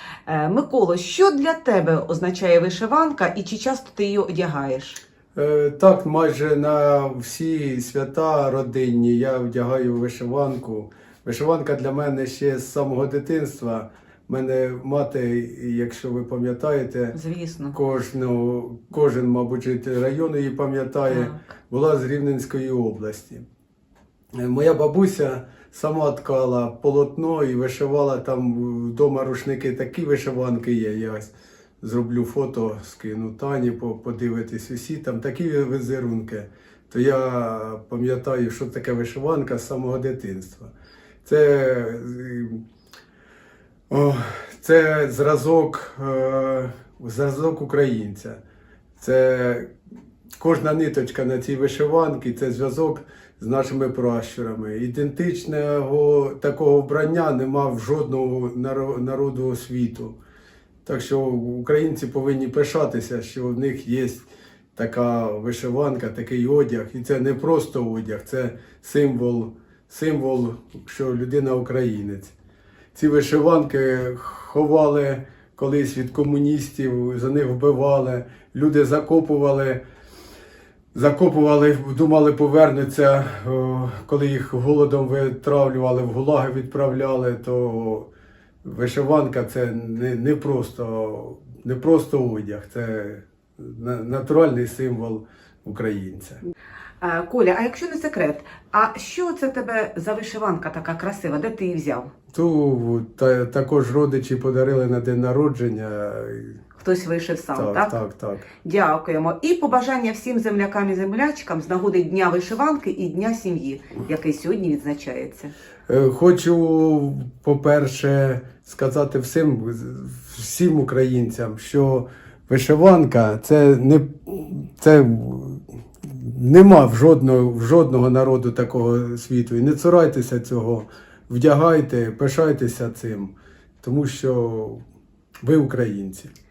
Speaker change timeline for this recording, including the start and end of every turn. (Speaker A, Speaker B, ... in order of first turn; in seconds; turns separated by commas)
Speaker A: 0.2-5.0, Speaker B: 5.3-17.2, Speaker A: 17.1-17.8, Speaker B: 17.7-23.4, Speaker A: 21.1-21.4, Speaker B: 24.4-40.7, Speaker B: 41.2-42.6, Speaker B: 43.9-48.4, Speaker B: 49.0-49.7, Speaker B: 50.4-60.1, Speaker B: 60.8-72.3, Speaker B: 72.9-79.8, Speaker B: 80.9-88.1, Speaker B: 88.6-96.4, Speaker A: 97.0-102.1, Speaker B: 102.3-106.6, Speaker A: 106.8-107.9, Speaker B: 107.5-108.5, Speaker A: 108.6-115.5, Speaker B: 115.9-134.8, Speaker B: 135.4-136.3